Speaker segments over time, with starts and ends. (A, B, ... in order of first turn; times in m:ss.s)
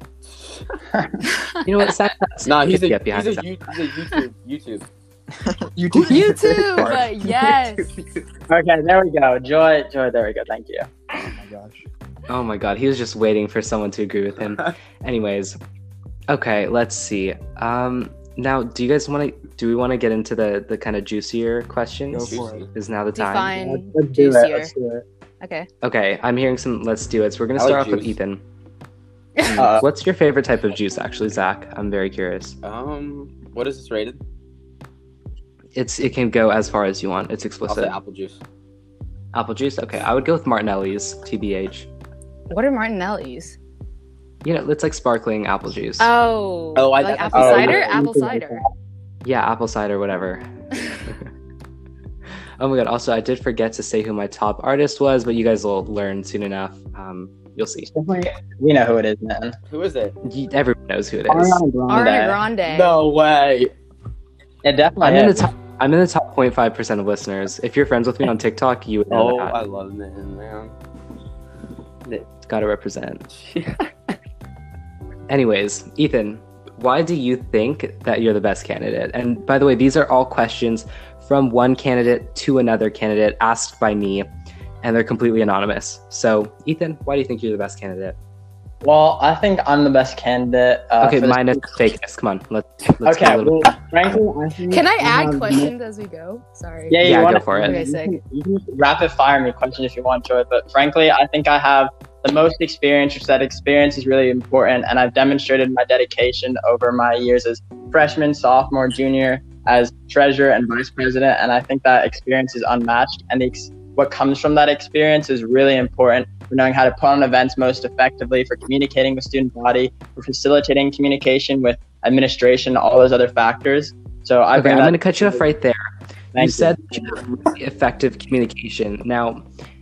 0:00.4-0:00.6 A
0:00.9-0:01.2 B
0:01.6-0:03.4 C
0:02.4-0:04.9 A
0:05.4-0:07.1 D
0:06.1-0:06.9 B
0:06.1-0:07.9 E
0:08.5-0:10.9 B
0:11.2-0:11.8 D
0:12.3-0:15.6 C
0:16.3-0:23.6 C
0:22.1-0:22.6 D
0:22.3-0:22.7 A
0:23.1-0:24.7 E
0:23.6-0:25.0 B
0:25.4-0:25.7 E
0:25.8-0:28.4 C
0:27.6-0:28.1 A
0:29.4-0:32.6 C
0:29.6-0:29.9 B
0:32.6-0:34.2 A
0:35.8-0:38.0 C
0:37.7-0:38.4 A
0:39.3-0:41.9 C
0:42.5-0:43.6 E
0:44.4-0:46.1 C
0:46.0-0:48.6 E
0:46.8-0:48.0 A
0:47.3-0:48.7 B
0:49.2-0:51.3 C
0:52.6-0:57.9 C
0:57.9-0:59.6 B
0:59.7-1:00.2 A
1:00.2-1:01.6 C
1:01.3-1:02.4 B
1:01.9-1:03.0 E
1:02.6-1:03.7 A
1:04.6-1:05.5 B
1:05.0-1:09.6 C
1:09.1-1:10.7 A
1:12.4-1:13.3 C
1:13.3-1:14.1 A
1:15.3-1:24.3 C
1:24.8-1:28.2 C
1:28.8-1:31.9 B
1:31.0-1:34.2 C
1:33.0-1:35.7 B
1:34.7-1:37.0 E
1:36.9-2:05.4 B
1:37.0-1:37.8 C
1:37.6-1:38.2 E
2:04.5-2:09.4 C
2:06.3-2:07.4 B